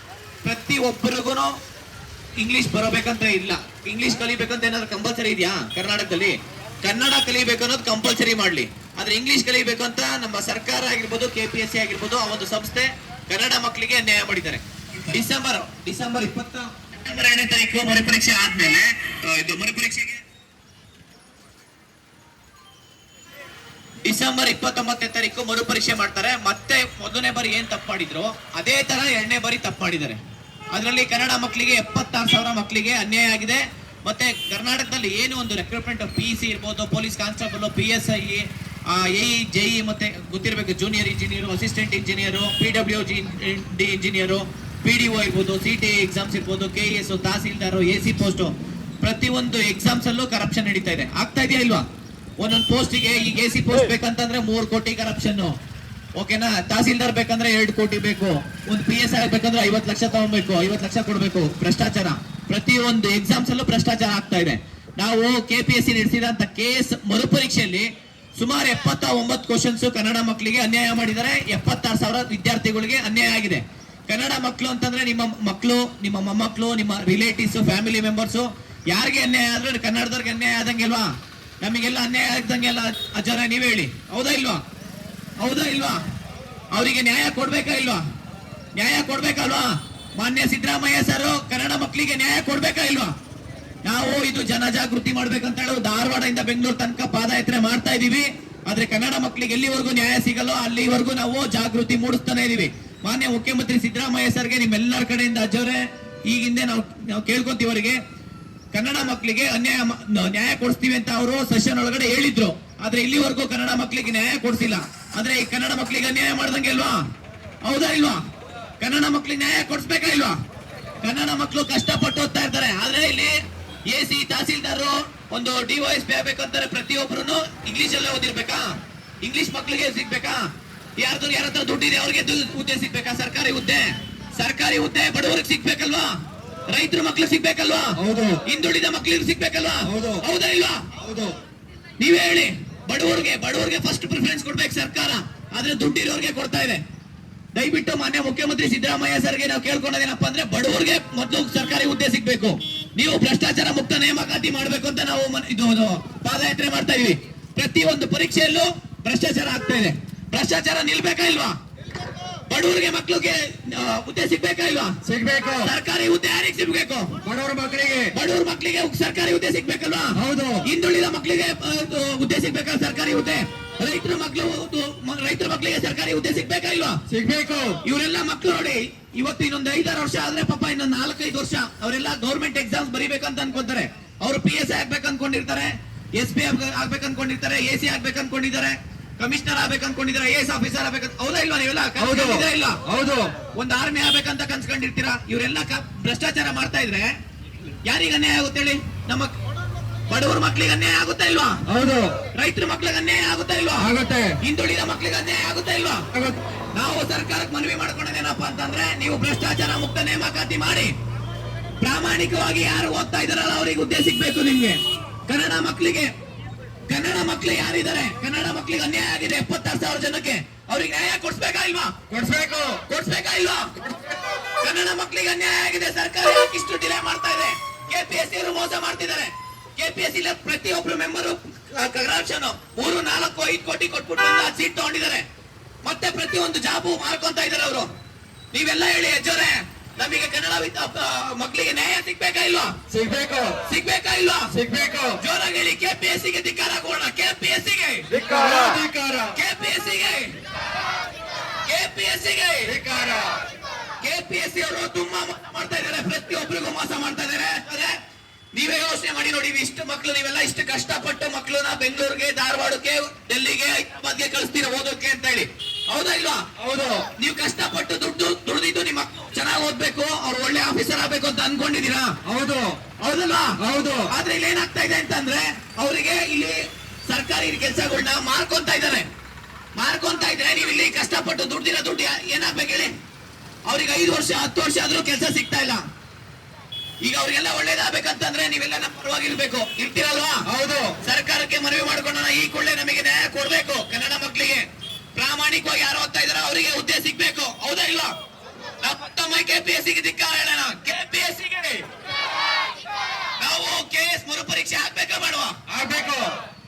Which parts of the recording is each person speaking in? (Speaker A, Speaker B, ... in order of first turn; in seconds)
Speaker A: 0.4-1.6, 2.4-20.2, 24.1-30.2, 30.7-51.9, 52.4-55.5, 56.2-84.6, 85.4-86.1, 86.7-88.0, 88.8-93.1, 93.8-108.0, 108.7-117.0, 117.6-118.2, 118.8-120.4, 121.0-136.2, 136.7-140.9, 142.0-146.8, 147.5-161.6, 162.5-164.9, 165.6-167.2, 168.1-177.0, 177.8-192.8, 193.6-197.2, 197.8-199.3, 200.1-201.6, 202.3-206.1, 206.7-210.9, 211.8-216.1, 216.9-221.9, 222.9-223.9, 224.6-235.2, 235.8-237.9, 238.5-242.8, 243.6-244.5, 245.2-248.6, 249.3-250.4, 251.7-252.8, 254.0-258.0, 258.5-266.5, 267.2-272.2, 273.0-279.1, 279.8-282.9, 283.7-285.9, 287.0-290.5, 291.0-298.1, 298.8-301.9, 303.4-305.6
Speaker B: 138.0-138.4, 139.8-140.2, 141.0-141.4, 165.1-165.7, 167.2-168.2, 170.2-170.7, 177.1-177.8, 192.0-193.3, 201.7-202.2, 203.8-204.4, 222.1-222.8, 242.9-243.6, 244.5-245.2, 248.1-249.4, 252.7-253.4, 266.6-267.1, 272.2-272.8, 273.6-274.1, 290.5-291.0, 305.7-306.4